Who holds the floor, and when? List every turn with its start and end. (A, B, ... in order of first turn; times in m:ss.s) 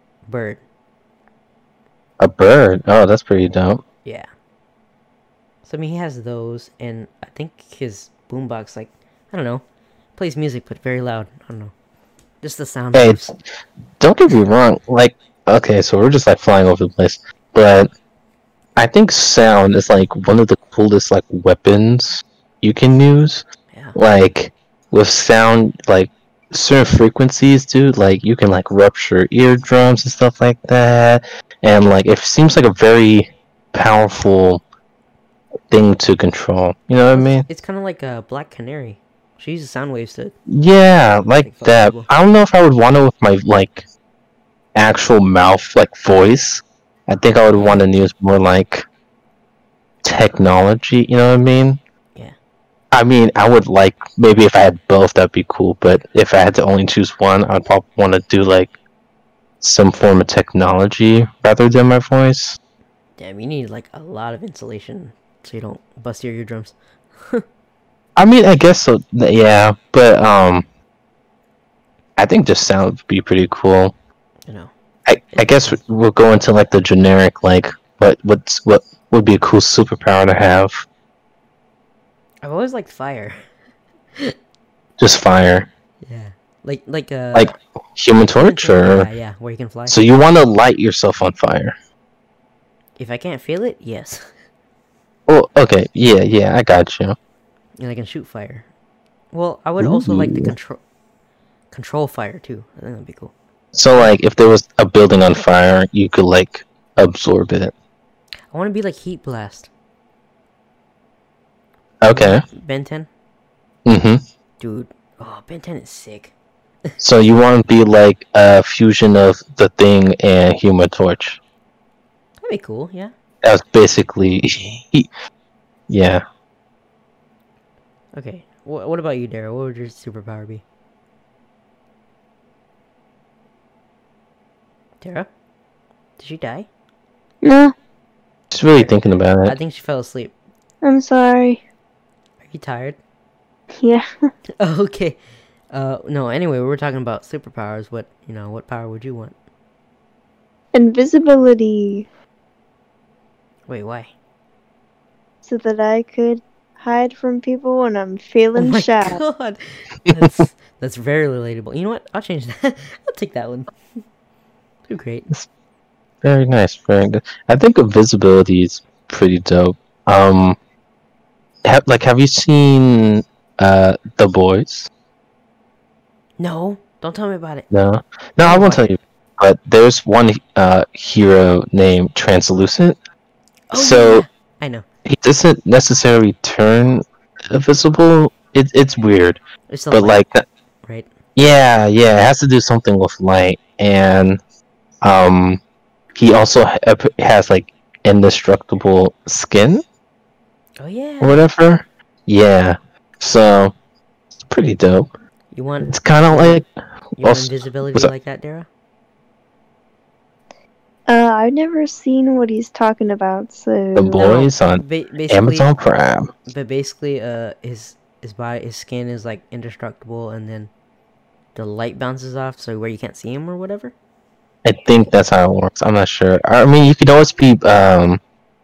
0:00.3-0:00.6 A
0:02.2-0:03.8 B
0:05.6-0:09.6 A
0:10.2-0:11.7 A
0:12.4-0:13.3 A
0:12.9-0:13.2 B
0:14.0-0:17.9 B
0:18.8-0:23.4 B
0:23.7-0:24.0 A
0:24.0-0:34.6 B
0:35.7-0:37.5 B
0:37.1-0:40.4 A
0:40.5-0:43.8 B
0:41.4-0:42.1 A
0:44.8-0:48.8 B
0:47.6-0:47.9 A
0:50.0-0:51.8 B
0:52.9-0:58.8 B
0:59.6-1:02.6 B
1:03.2-1:07.4 A
1:08.2-1:10.6 B
1:12.2-1:14.0 B
1:15.1-1:20.8 B
1:15.4-1:15.8 A
1:22.4-1:23.4 A
1:25.0-1:25.7 B
1:26.0-1:27.6 A
1:27.4-1:29.1 B
1:28.3-1:30.0 A
1:29.9-1:31.7 B
1:33.0-1:34.3 A
1:35.3-1:37.2 B
1:37.8-1:38.7 A
1:39.3-1:40.8 A
1:39.8-1:40.5 B
1:41.7-1:43.3 A
1:43.7-1:47.7 B
1:48.5-1:49.7 A
1:52.0-1:52.4 B
1:52.1-1:53.1 A
1:53.8-1:54.2 B
1:54.6-1:56.3 A
1:57.0-2:01.4 B
2:02.4-2:03.1 A
2:03.4-2:05.1 B
2:05.9-2:06.2 B
2:08.1-2:10.6 A
2:15.0-2:15.3 A
2:16.2-2:16.7 A
2:17.4-2:17.7 C
2:18.5-2:19.6 B
2:18.7-2:20.3 A
2:20.8-2:21.6 C
2:22.4-2:23.0 A
2:23.8-2:24.0 C
2:24.6-2:25.2 A
2:25.7-2:29.4 A
2:30.7-2:32.1 C
2:33.7-2:34.1 A
2:35.4-2:39.2 C
2:38.6-2:43.7 A
2:44.9-2:45.3 A
2:46.2-2:50.6 B
2:51.6-2:54.9 B
2:56.4-2:57.7 A
2:57.7-3:03.0 B
2:58.4-2:59.0 A
3:03.7-3:04.8 A
3:03.7-3:04.2 B
3:05.0-3:09.4 B
3:09.7-3:10.2 A
3:09.9-3:10.5 B
3:10.8-3:11.1 A
3:11.4-3:14.4 B
3:15.0-3:15.6 B
3:16.2-3:19.8 B
3:20.8-3:21.4 A
3:21.2-3:23.7 B
3:24.4-3:25.1 B
3:25.5-3:26.6 A
3:25.9-3:26.7 B
3:27.2-3:28.7 A
3:27.2-3:28.1 B
3:31.1-3:34.3 C
3:34.0-3:36.3 B
3:34.2-3:35.7 A
3:36.5-3:40.7 A
3:41.6-3:43.9 A
3:44.6-3:48.2 B